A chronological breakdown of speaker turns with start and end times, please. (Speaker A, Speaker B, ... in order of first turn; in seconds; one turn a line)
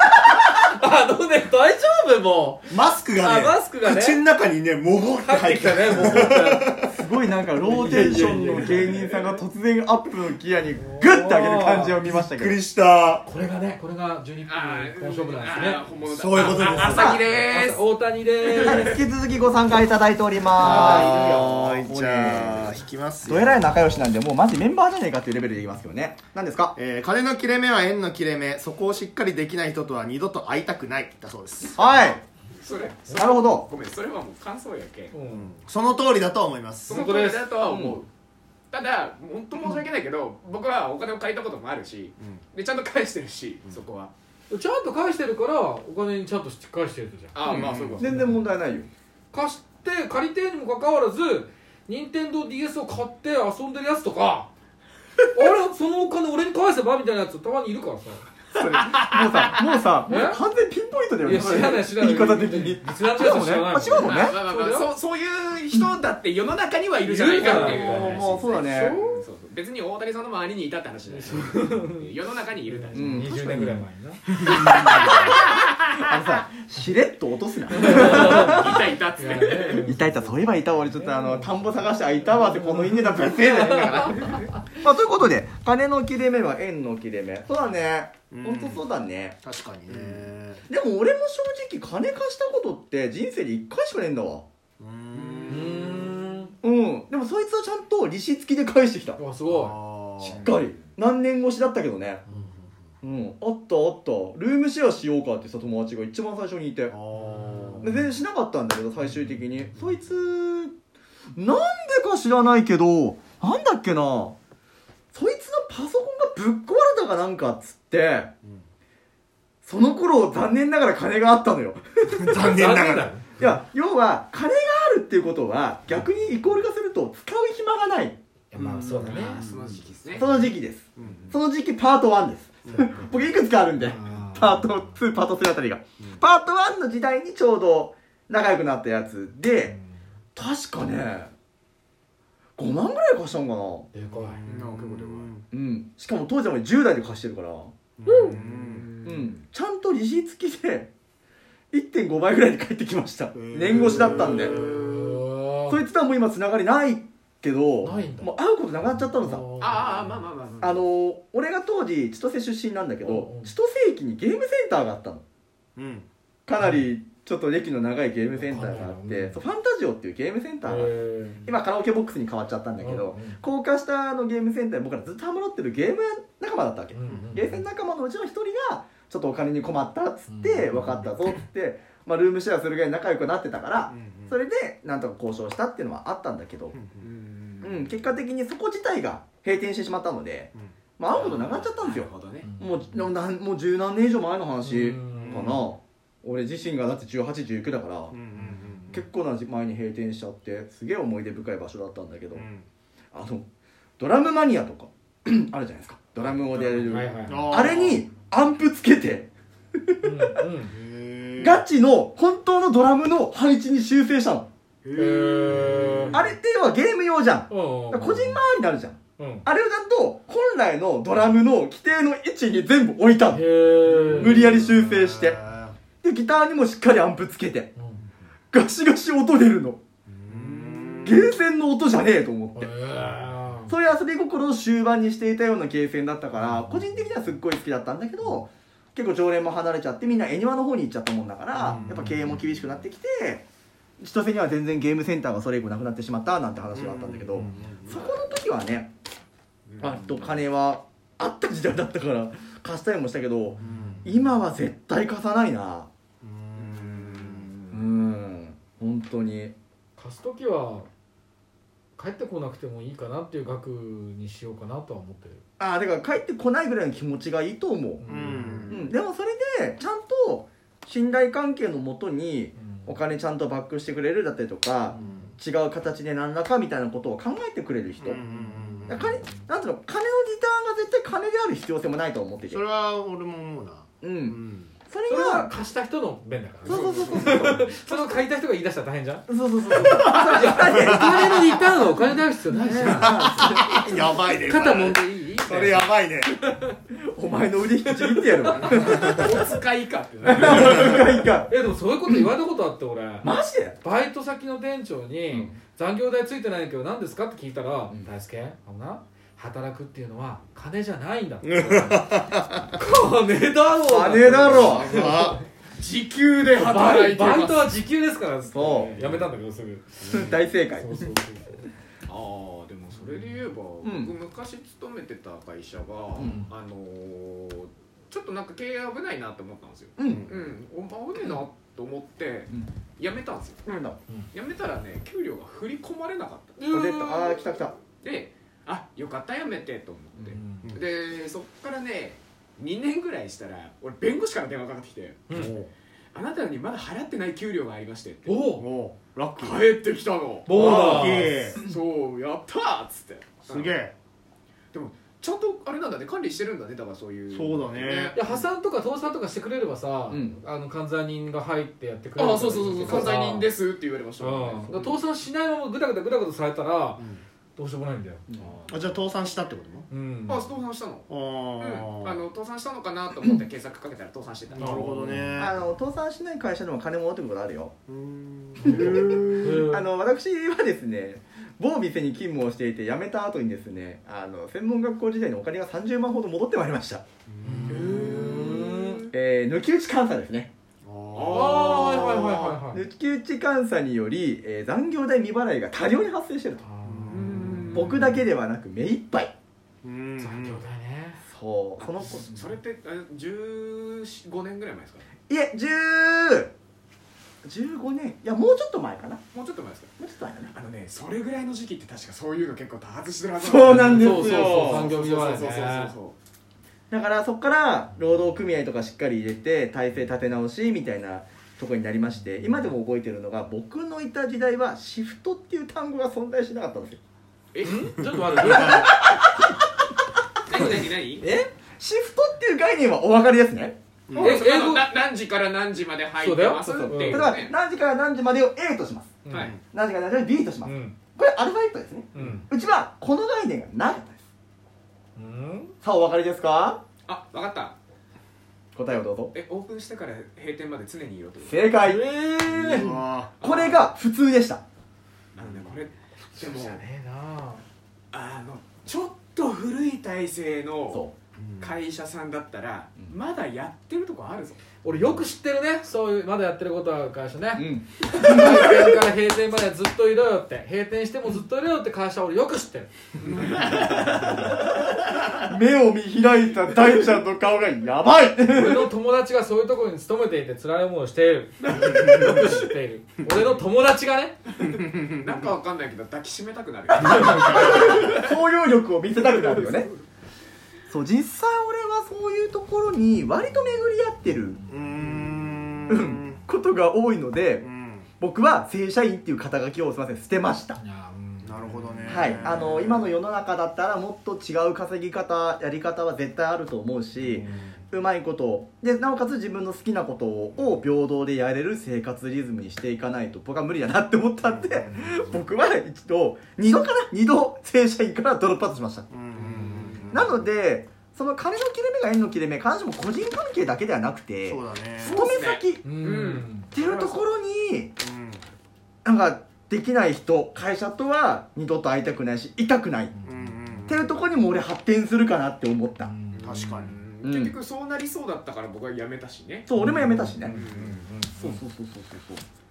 Speaker A: 0.3-4.2
Speaker B: 2.7-6.9
Speaker A: 5.2-6.7
Speaker C: 6.8-12.6
Speaker A: 7.5-9.0
Speaker D: 8.6-9.4
Speaker A: 10.8-12.0
Speaker B: 12.0-13.2
Speaker A: 13.2-15.8
Speaker D: 14.4-17.9
Speaker B: 16.1-17.2
Speaker A: 16.4-19.0
Speaker C: 16.8-17.2
Speaker D: 18.4-19.0
Speaker C: 18.6-26.7
Speaker B: 20.6-23.8
Speaker A: 20.6-21.6
Speaker B: 26.7-31.9
Speaker C: 31.8-32.2
Speaker D: 32.5-35.1
Speaker C: 33.1-33.7
Speaker A: 35.1-35.5
Speaker B: 35.3-36.9
Speaker D: 36.9-38.1
Speaker A: 36.9-37.5
Speaker C: 37.7-38.0
Speaker D: 38.7-44.1
Speaker A: 44.5-48.4
Speaker D: 47.3-48.1
Speaker B: 47.5-48.1
Speaker C: 48.0-48.9
Speaker A: 49.3-54.5
Speaker A: 55.3-58.2
Speaker C: 58.5-64.4
Speaker D: 58.6-59.8
Speaker A: 60.0-60.4
Speaker A: 61.2-64.9
Speaker D: 64.0-73.2
Speaker A: 67.0-69.2
Speaker C: 67.4-69.0
Speaker A: 71.1-72.1
Speaker A: 72.7-74.7
Speaker C: 72.9-73.8
Speaker D: 74.3-76.1
Speaker C: 74.5-78.9
Speaker A: 77.7-84.1
Speaker D: 77.8-80.0
Speaker C: 79.8-94.4
Speaker D: 84.0-84.4
Speaker B: 88.3-88.8
Speaker B: 89.4-90.6
Speaker B: 94.8-95.8
Speaker D: 95.1-96.1
Speaker A: 95.5-96.5
Speaker C: 96.6-99.2
Speaker A: 99.2-99.8
Speaker B: 99.5-100.4
Speaker C: 100.2-102.2
Speaker D: 100.2-100.9
Speaker B: 102.3-102.7
Speaker C: 103.0-106.9
Speaker B: 106.9-107.9
Speaker A: 107.2-107.9
Speaker C: 107.8-110.7
Speaker C: 111.3-114.3
Speaker C: 115.1-118.3
Speaker C: 119.6-122.7
Speaker B: 122.2-123.1
Speaker A: 122.3-123.3
Speaker C: 123.4-128.2
Speaker A: 128.5-129.4
Speaker B: 128.5-129.8
Speaker D: 129.0-130.3
Speaker C: 130.1-139.8
Speaker B: 131.0-131.3
Speaker D: 131.0-131.3
Speaker B: 132.7-133.0
Speaker A: 133.8-134.8
Speaker A: 139.6-139.9
Speaker C: 140.3-141.3
Speaker C: 142.6-143.9
Speaker A: 143.9-144.4
Speaker B: 144.1-145.4
Speaker D: 144.5-145.3
Speaker C: 145.5-147.7
Speaker B: 148.0-148.9
Speaker A: 148.1-148.3
Speaker D: 148.2-149.4
Speaker C: 149.0-150.9
Speaker C: 151.7-154.6
Speaker B: 153.3-155.0
Speaker A: 154.4-155.8
Speaker C: 155.7-159.8
Speaker A: 157.8-158.3
Speaker A: 159.1-160.1
Speaker D: 159.6-160.8
Speaker C: 160.6-165.2
Speaker A: 163.0-163.5
Speaker B: 165.8-166.1
Speaker C: 166.5-186.8
Speaker A: 166.6-166.8
Speaker A: 168.4-169.4
Speaker A: 170.6-171.4
Speaker A: 172.8-173.4
Speaker A: 176.9-177.6
Speaker B: 177.1-177.4
Speaker A: 180.3-181.1
Speaker B: 183.9-184.3
Speaker B: 186.7-187.1
Speaker D: 187.0-187.9
Speaker C: 187.6-198.1
Speaker D: 191.1-192.5
Speaker A: 192.4-193.1
Speaker A: 194.6-195.6
Speaker B: 195.2-195.6
Speaker B: 198.1-199.0
Speaker A: 198.4-199.0
Speaker C: 198.9-202.4
Speaker B: 202.3-202.7
Speaker C: 203.1-203.4
Speaker C: 204.0-210.4
Speaker A: 206.8-207.8
Speaker B: 207.2-208.1
Speaker A: 210.0-210.7
Speaker B: 210.7-211.6
Speaker C: 211.4-214.5
Speaker D: 214.8-216.3
Speaker A: 214.9-216.2
Speaker C: 216.1-223.5
Speaker A: 217.5-218.4
Speaker A: 219.2-219.5
Speaker A: 223.3-224.4
Speaker B: 223.9-225.8
Speaker C: 224.1-225.4
Speaker C: 226.0-227.7
Speaker A: 227.8-228.0
Speaker C: 228.5-229.8
Speaker B: 230.1-231.2
Speaker D: 230.3-231.2
Speaker C: 231.0-232.7
Speaker A: 232.6-233.7
Speaker C: 233.7-243.4
Speaker A: 241.6-242.2
Speaker B: 241.6-242.3
Speaker C: 244.0-248.9
Speaker B: 246.7-248.2
Speaker D: 249.7-250.4
Speaker C: 249.8-255.9
Speaker B: 253.6-254.1
Speaker B: 256.2-257.5
Speaker D: 256.6-257.8
Speaker C: 257.7-259.5
Speaker A: 260.0-260.9
Speaker A: 261.9-265.4
Speaker C: 265.6-268.1
Speaker A: 268.0-268.7
Speaker B: 268.1-268.9
Speaker C: 268.7-278.2
Speaker A: 272.6-273.0
Speaker B: 274.9-275.3
Speaker B: 278.0-279.1
Speaker A: 278.3-279.2
Speaker C: 278.9-282.6
Speaker B: 282.5-284.7
Speaker C: 284.0-284.4
Speaker C: 284.9-285.5
Speaker A: 285.1-295.9
Speaker C: 286.6-288.2
Speaker D: 286.6-287.5
Speaker C: 289.3-291.6
Speaker D: 289.8-290.6
Speaker B: 290.8-291.1
Speaker C: 292.5-294.0
Speaker B: 292.9-296.4
Speaker C: 296.4-299.6
Speaker A: 297.9-299.2
Speaker D: 298.9-301.1
Speaker C: 300.2-301.5
Speaker A: 301.5-315.4
Speaker C: 302.1-302.3
Speaker C: 303.2-303.8
Speaker B: 311.4-312.6
Speaker C: 313.8-315.0
Speaker D: 314.5-315.1
Speaker B: 314.8-315.4
Speaker D: 315.8-317.7
Speaker A: 316.5-321.7
Speaker C: 318.5-319.1
Speaker C: 320.1-321.1
Speaker D: 322.1-333.6
Speaker C: 323.8-324.1
Speaker A: 326.2-326.5
Speaker C: 330.0-330.3
Speaker B: 330.1-330.5
Speaker C: 333.6-334.0
Speaker D: 334.3-336.6
Speaker A: 336.6-337.5
Speaker C: 336.7-337.7
Speaker D: 337.9-345.4
Speaker A: 340.3-340.7
Speaker A: 345.3-345.5
Speaker B: 345.3-345.7
Speaker D: 346.1-348.4
Speaker A: 348.2-348.6
Speaker B: 348.6-349.7
Speaker D: 349.4-350.6
Speaker A: 350.5-351.5
Speaker B: 350.5-351.6
Speaker C: 350.5-351.8
Speaker D: 351.5-353.8
Speaker B: 353.4-353.9
Speaker D: 354.7-358.4
Speaker B: 357.3-358.2
Speaker A: 358.1-363.5
Speaker C: 360.1-360.4
Speaker D: 362.1-365.0
Speaker C: 362.8-363.1
Speaker A: 364.2-367.0
Speaker A: 367.6-368.2
Speaker C: 368.3-368.7
Speaker D: 368.4-368.9
Speaker B: 368.7-369.9
Speaker A: 369.9-370.4
Speaker D: 370.3-371.1
Speaker B: 371.1-372.2
Speaker D: 371.6-375.1
Speaker A: 374.5-375.3
Speaker B: 374.6-375.6
Speaker C: 375.4-377.7
Speaker B: 377.9-379.6
Speaker A: 378.6-379.9
Speaker C: 378.6-387.0
Speaker B: 387.3-388.4
Speaker A: 387.4-389.1
Speaker D: 387.7-389.0
Speaker C: 388.1-390.5
Speaker B: 390.8-391.6
Speaker D: 391.1-392.6
Speaker A: 391.3-392.8
Speaker C: 391.8-396.6
Speaker A: 396.6-397.9
Speaker B: 396.9-397.8
Speaker D: 397.1-398.2
Speaker C: 397.7-399.3
Speaker B: 399.8-400.6
Speaker A: 400.2-401.2
Speaker C: 401.2-402.4
Speaker D: 401.8-405.1
Speaker C: 405.3-406.5
Speaker C: 407.4-409.2
Speaker D: 409.3-409.9
Speaker C: 410.0-410.5
Speaker D: 410.5-416.1
Speaker C: 413.4-414.9
Speaker A: 413.6-415.9
Speaker C: 416.9-427.0
Speaker D: 427.5-428.9
Speaker A: 427.6-429.0
Speaker D: 430.4-431.2
Speaker A: 431.2-431.5
Speaker C: 431.8-433.8
Speaker B: 434.1-434.4
Speaker D: 434.1-437.5
Speaker A: 434.2-434.9
Speaker A: 436.2-437.4
Speaker C: 436.7-444.2
Speaker A: 439.2-439.5
Speaker D: 439.3-439.5
Speaker A: 440.6-440.9
Speaker A: 442.1-442.5
Speaker A: 445.1-445.7
Speaker C: 445.8-446.8
Speaker D: 447.1-447.8
Speaker C: 448.7-449.3
Speaker D: 449.3-451.7
Speaker C: 451.4-452.0
Speaker A: 451.8-452.9
Speaker B: 452.6-453.3
Speaker D: 453.4-453.9
Speaker C: 453.4-454.6
Speaker D: 455.3-456.8
Speaker A: 456.3-457.6
Speaker D: 458.1-461.0
Speaker B: 461.4-461.7
Speaker D: 461.6-464.6
Speaker A: 464.8-472.9
Speaker C: 467.5-469.0
Speaker D: 473.2-474.6
Speaker C: 475.4-478.9
Speaker A: 478.5-484.4
Speaker D: 481.8-482.3
Speaker D: 484.6-488.4
Speaker C: 486.9-489.9
Speaker D: 489.2-489.9
Speaker C: 490.9-494.6
Speaker A: 494.5-495.8
Speaker B: 494.7-496.4
Speaker C: 495.9-497.7
Speaker B: 497.6-498.1
Speaker C: 498.2-500.8
Speaker A: 500.8-502.7
Speaker B: 501.4-503.1
Speaker C: 502.1-519.1
Speaker A: 507.2-507.6
Speaker B: 519.1-520.4
Speaker D: 519.4-520.1
Speaker C: 520.1-525.9
Speaker B: 524.5-525.2
Speaker D: 525.0-527.2
Speaker A: 525.8-526.7
Speaker C: 526.7-527.9
Speaker B: 528.0-528.4
Speaker C: 529.0-533.1
Speaker A: 533.1-533.8
Speaker B: 533.2-534.2
Speaker C: 533.9-536.1
Speaker A: 536.0-536.9
Speaker D: 536.4-539.7
Speaker B: 536.4-536.9
Speaker C: 537.2-537.5
Speaker C: 539.6-540.5
Speaker A: 539.8-541.6
Speaker D: 540.4-541.0
Speaker C: 541.3-542.4